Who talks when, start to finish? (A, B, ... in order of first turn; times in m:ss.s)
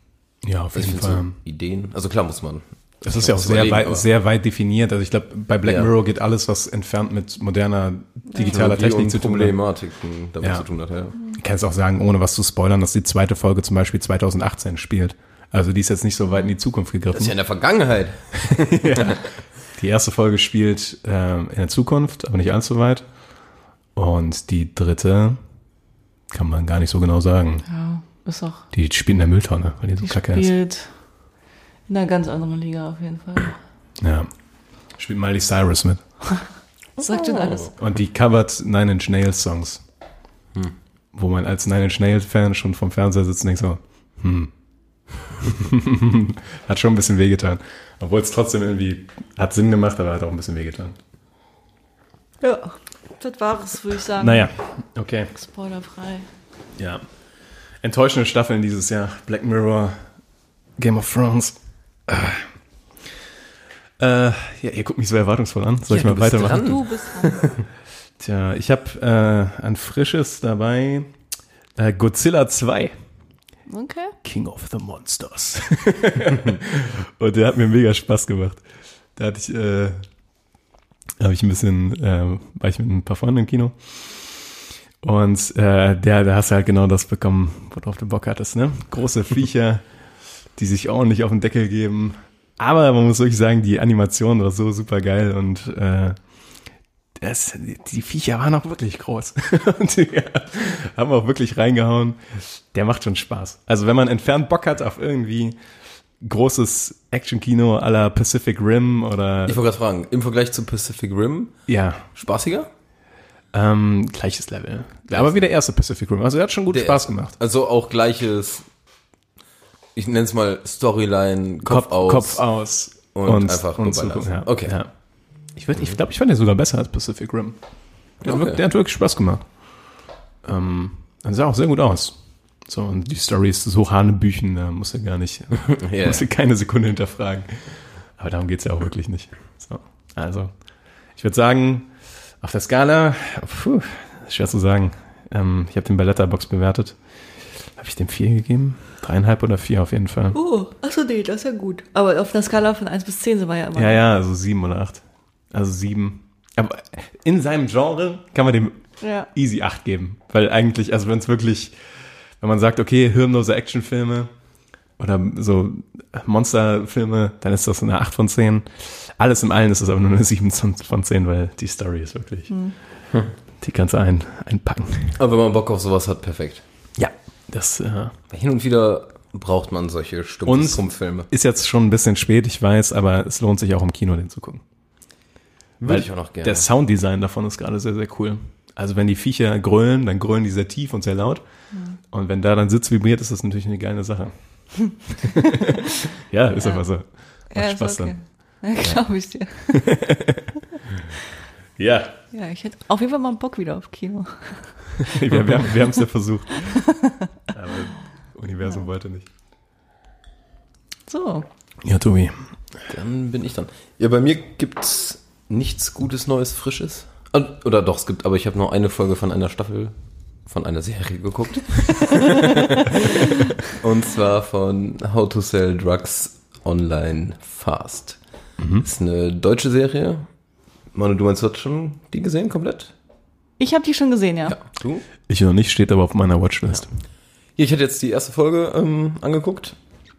0:00.4-0:01.4 A
0:00.7-0:04.0 B
0:03.0-0:09.6 A
0:05.6-0:05.9 B
0:08.5-0:11.2 B
0:10.4-0:17.5 A
0:17.1-0:19.2 B
0:18.5-0:25.4 A
0:26.3-0:27.6 A
0:27.7-0:28.7 C
0:28.7-0:30.5 A
0:30.0-0:31.3 C
0:31.9-0:33.6 C
0:34.0-0:36.4 A
0:37.0-0:37.7 C
0:37.0-0:37.7 B
0:37.8-0:39.8 A
0:41.1-0:44.5 A
0:45.4-0:51.0 A
0:52.4-0:54.6 C
0:54.2-0:55.3 A
0:55.3-0:56.3 C
0:56.8-0:57.2 A
0:57.8-1:00.2 A
1:00.8-1:02.5 A
1:04.0-1:06.7 A
1:05.9-1:07.6 B
1:06.2-1:07.5 C
1:08.2-1:11.1 A
1:11.8-1:13.0 A
1:13.7-1:14.2 C
1:14.2-1:20.0 A
1:21.2-1:24.4 A
1:25.0-1:29.8 A
1:30.5-1:45.6 A
1:46.2-1:49.6 A
1:49.4-1:52.7 B
1:51.7-1:52.1 A
1:53.5-1:57.3 A
1:55.1-1:55.5 B
1:56.7-1:58.7 B
1:59.9-2:04.8 B
2:01.6-2:30.4 A
2:08.2-2:08.6 B
2:15.8-2:16.2 B
2:30.3-2:34.0 C
2:33.7-2:44.3 A
2:39.0-2:39.3 C
2:45.0-2:53.0 A
2:52.5-2:52.8 C
2:53.6-2:55.2 A
2:55.2-2:56.6 B
2:57.0-2:58.2 A
2:58.3-3:01.3 B
3:00.4-3:04.6 A
3:05.8-3:06.7 B
3:05.8-3:15.4 A
3:11.7-3:12.0 C
3:16.3-3:19.0 A
3:16.5-3:20.0 C
3:19.9-3:20.3 A
3:21.8-3:22.2 A
3:22.3-3:25.1 C
3:25.1-3:26.9 A
3:27.5-3:29.3 A
3:31.1-3:31.4 C
3:31.8-3:32.6 A
3:32.9-3:48.2 B
3:48.6-3:48.8 A
3:48.8-3:50.3 B
3:50.9-3:52.9 B
3:53.6-3:54.6 C
3:54.5-3:55.0 B
3:55.2-3:57.0 A
3:56.7-3:59.8 B